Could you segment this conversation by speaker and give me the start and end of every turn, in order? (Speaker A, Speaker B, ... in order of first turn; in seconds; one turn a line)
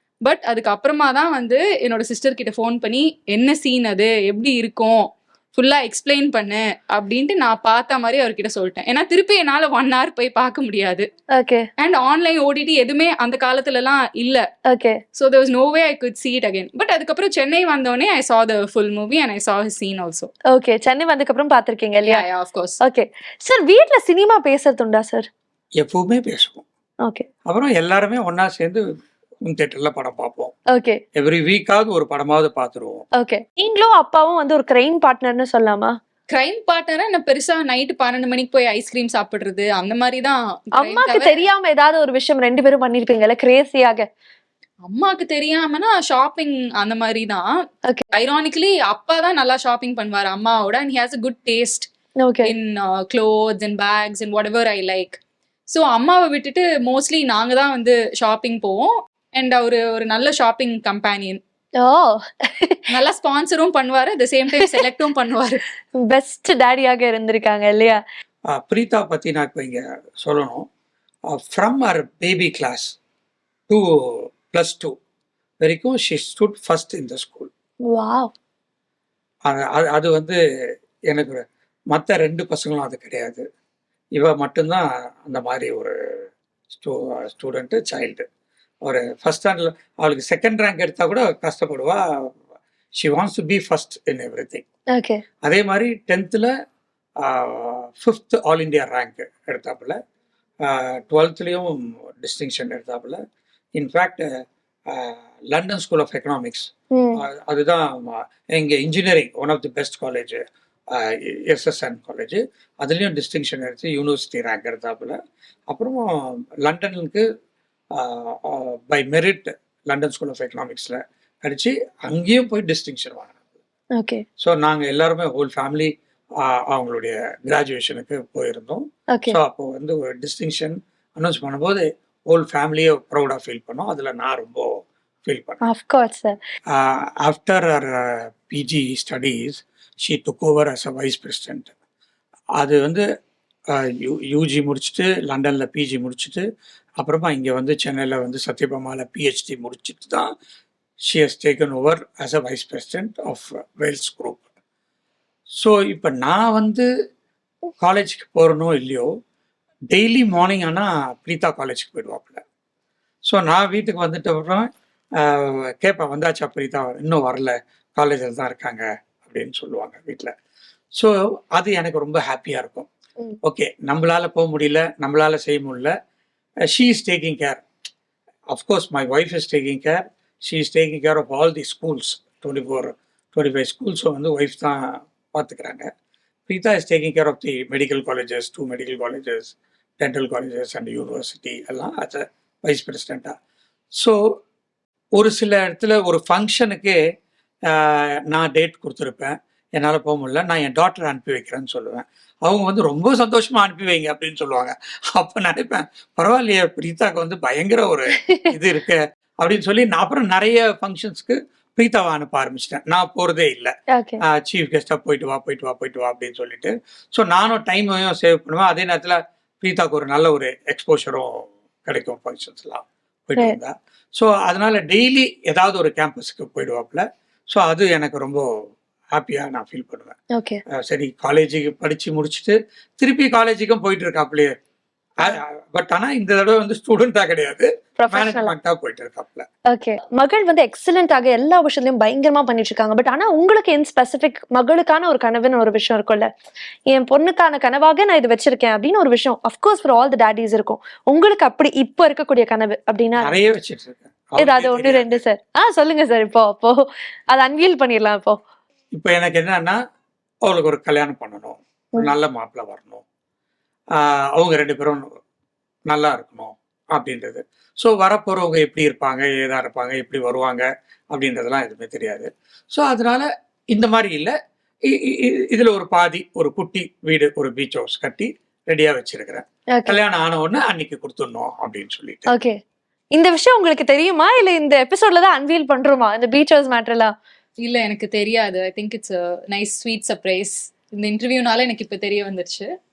Speaker A: 0.2-11.1
Speaker B: 11.3-11.7
Speaker A: 11.8-14.4
Speaker B: 14.7-15.0
Speaker A: 15.1-20.3
Speaker B: 20.5-22.2
Speaker A: 22.0-22.8
Speaker B: 22.8-25.3
Speaker C: 25.8-26.6
Speaker C: 27.4-28.8
Speaker C: 29.4-30.5
Speaker B: 30.7-31.0
Speaker C: 31.1-33.0
Speaker B: 33.2-36.0
Speaker A: 36.3-41.4
Speaker B: 40.8-44.0
Speaker A: 44.8-51.9
Speaker B: 52.2-52.5
Speaker A: 52.4-61.4
Speaker B: 61.8-62.8
Speaker A: 62.9-65.6
Speaker B: 66.0-68.0
Speaker C: 68.5-70.7
Speaker C: 71.3-73.0
Speaker C: 73.7-75.0
Speaker C: 75.6-77.5
Speaker B: 77.9-78.3
Speaker C: 79.5-80.4
Speaker C: 81.1-83.4
Speaker C: 84.2-85.9
Speaker C: 86.7-88.2
Speaker C: 88.8-92.3
Speaker C: 93.0-94.6
Speaker B: 94.9-95.2
Speaker C: 95.4-96.5
Speaker C: 97.2-100.0
Speaker C: 100.6-103.2
Speaker C: 103.7-115.2
Speaker B: 106.9-107.2
Speaker C: 115.7-117.2
Speaker C: 117.9-123.4
Speaker B: 124.0-124.2
Speaker C: 124.4-135.6
Speaker B: 135.6-136.4
Speaker C: 136.7-141.7
Speaker C: 142.6-143.0
Speaker C: 143.7-146.4
Speaker C: 147.0-150.3
Speaker C: 151.1-154.4
Speaker C: 155.6-156.9
Speaker C: 157.8-159.1
Speaker C: 159.9-162.4
Speaker C: 163.2-170.3
Speaker C: 170.9-172.9
Speaker C: 173.4-175.9
Speaker C: 176.7-177.6
Speaker C: 178.5-185.9
Speaker C: 186.5-193.3
Speaker C: 195.1-197.0
Speaker C: 197.7-228.4
Speaker B: 213.9-214.2
Speaker C: 229.1-230.2
Speaker B: 230.3-230.6
Speaker C: 230.7-234.5
Speaker C: 235.2-239.4
Speaker B: 238.0-238.5
Speaker B: 239.7-246.3
Speaker B: 246.9-253.3
Speaker C: 253.2-255.2
Speaker B: 254.4-258.4
Speaker C: 258.9-259.8
Speaker C: 260.4-263.0
Speaker C: 263.9-265.1
Speaker C: 265.9-274.3
Speaker C: 274.8-282.3
Speaker B: 279.7-280.0
Speaker B: 282.3-282.6
Speaker B: 283.1-287.1
Speaker A: 287.6-292.7